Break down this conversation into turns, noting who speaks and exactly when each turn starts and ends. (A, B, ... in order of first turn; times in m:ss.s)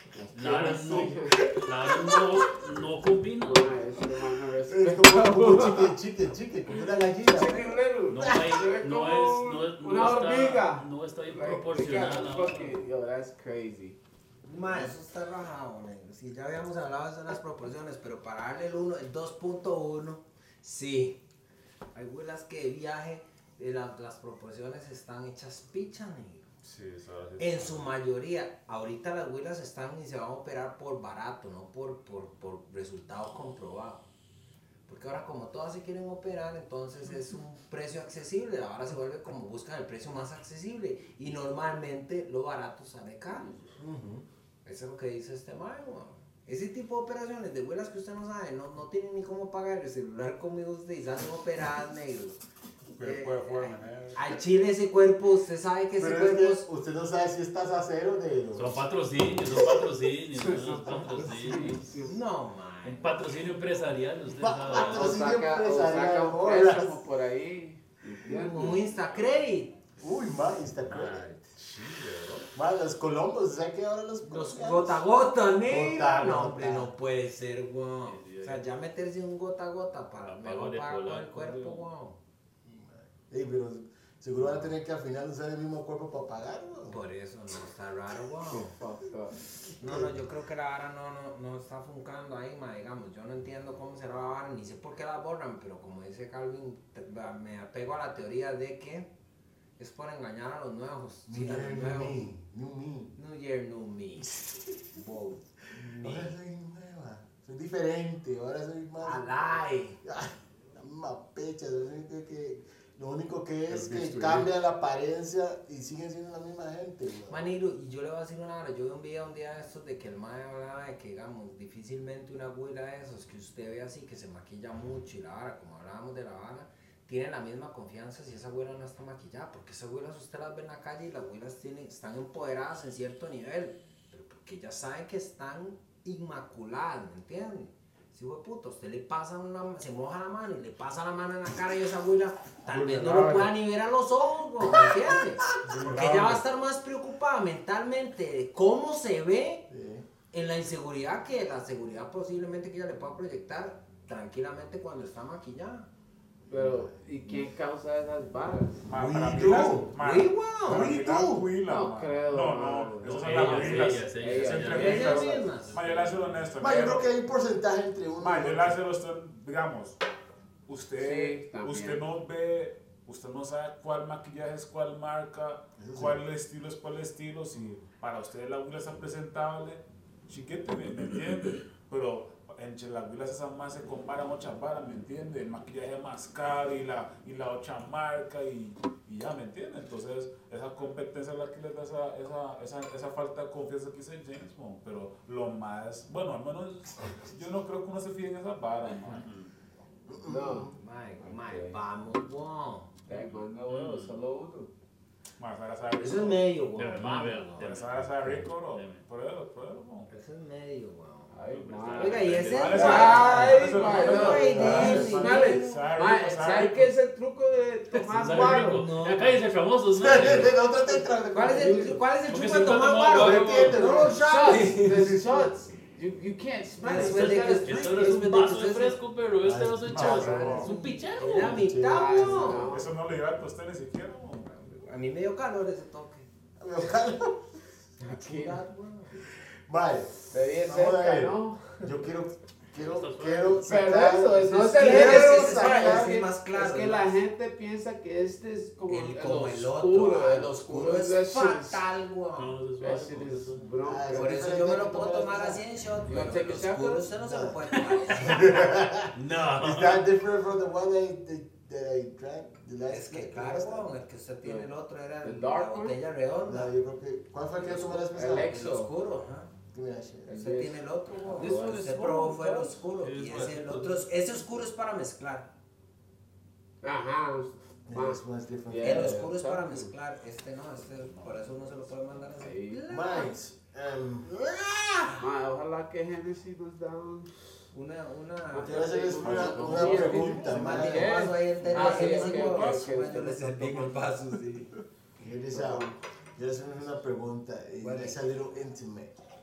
0:00.1-0:01.4 A
0:00.3-0:03.8 B
0:00.4-0:02.4 C
0:03.4-0:06.0 A
0:04.7-0:07.8 C
0:07.1-0:14.0 A
0:08.1-0:12.8 B
0:14.4-0:21.2 D
0:14.6-0:15.0 C
0:21.9-0:26.5 D
0:26.6-0:27.9 E
0:27.4-0:34.1 D
0:34.9-0:43.5 D
0:43.8-0:44.2 C
0:44.6-0:52.4 D
0:53.0-0:54.3 E
0:53.0-0:56.7 D
0:55.9-0:58.8 C
0:58.5-1:01.9 B
1:00.3-1:02.2 A
1:02.0-1:03.3 D
1:02.8-1:05.2 B
1:04.4-1:07.0 C
1:04.7-1:08.8 A
1:08.2-1:09.8 D
1:10.0-1:11.3 C
1:10.9-1:11.5 B
1:11.6-1:12.5 E
1:12.6-1:15.0 C
1:14.2-1:22.2 D
1:15.6-1:16.9 C
1:18.0-1:18.7 B
1:20.2-1:21.9 B
1:22.6-1:27.0 C
1:26.9-1:28.7 D
1:28.5-1:29.4 A
1:29.8-1:39.1 D
1:39.8-1:42.2 D
1:41.3-1:43.2 C
1:43.2-1:44.3 D
1:44.9-1:46.4 D
1:45.9-1:49.2 C
1:49.0-1:50.0 D
1:50.0-1:57.5 C
1:53.7-1:54.5 B
1:57.3-2:29.6 D
2:22.7-2:23.5 E
2:25.6-2:26.4 E
2:29.7-2:30.1 C
2:30.3-2:35.9 D
2:36.5-2:38.9 A
2:36.5-2:37.4 C
2:38.8-2:47.1 E
2:39.0-2:39.9 C
2:40.0-2:40.9 D
2:40.7-2:41.5 C
2:41.6-2:45.2 A
2:43.0-2:46.5 B
2:44.7-2:45.7 D
2:46.6-2:48.8 C
2:48.2-2:50.0 E
2:50.7-3:19.3 E
2:51.0-2:52.1 A
2:55.8-2:56.2 C
3:19.1-3:19.5 B
3:20.1-3:20.7 C
3:20.2-3:21.8 A
3:20.7-3:22.9 D
3:23.1-3:24.7 A
3:23.1-3:24.2 B
3:25.4-3:26.4 E
3:26.0-3:28.4 D
3:26.8-3:28.1 B
3:27.6-3:30.1 E
3:28.7-3:29.0 B
3:30.1-3:31.4 D
3:31.3-3:38.9 A
3:31.4-3:36.9 E
3:31.9-3:35.9 D
3:32.2-3:32.6 B
3:34.4-3:35.2 C
3:38.0-3:40.6 B
3:38.2-3:39.4 D
3:39.9-3:42.0 C
3:40.9-3:45.0 D
3:42.3-3:44.2 B
3:42.6-3:45.5 C
3:44.2-3:48.3 A
3:46.8-3:49.0 D
3:47.6-3:51.6 B
3:49.4-3:50.7 C
3:49.9-3:50.7 E
3:50.0-3:52.7 D
3:51.2-3:52.7 C
3:51.9-3:53.0 A
3:52.5-3:54.5 E
3:54.5-3:56.3 D
3:56.6-3:57.5 C
3:58.0-3:58.6 A
3:58.1-3:59.2 D
3:59.7-4:06.2 C
4:00.2-4:02.0 A
4:02.8-4:03.7 B
4:03.6-4:11.9 A
4:04.8-4:07.2 D
4:08.9-4:12.6 D
4:12.4-4:13.6 B
4:12.8-4:14.5 A
4:13.8-4:15.6 C
4:14.1-4:18.7 D
4:16.1-4:17.1 A
4:17.2-4:23.9 C
4:19.1-4:20.0 B
4:22.9-4:26.7 D
4:24.4-4:24.7 A
4:25.2-4:26.0 A
4:26.5-4:28.5 C
4:27.6-4:28.9 A
4:28.5-4:29.5 D
4:29.7-4:30.5 C
4:30.3-4:32.8 A
4:30.4-4:35.5 D
4:33.0-4:34.0 B
4:36.8-4:39.9 A
4:37.9-4:39.3 C
4:38.8-4:43.4 D
4:41.0-4:41.6 E
4:42.4-4:42.8 A
4:42.9-4:45.1 C
4:44.9-4:45.2 D
4:45.2-4:47.3 A
4:47.7-4:54.7 D
4:48.5-4:54.4 A
4:48.6-4:51.3 C
4:49.2-4:50.7 E
4:51.6-4:53.2 E
4:55.2-4:59.1 C
4:55.5-4:56.0 A
4:57.8-4:58.2 D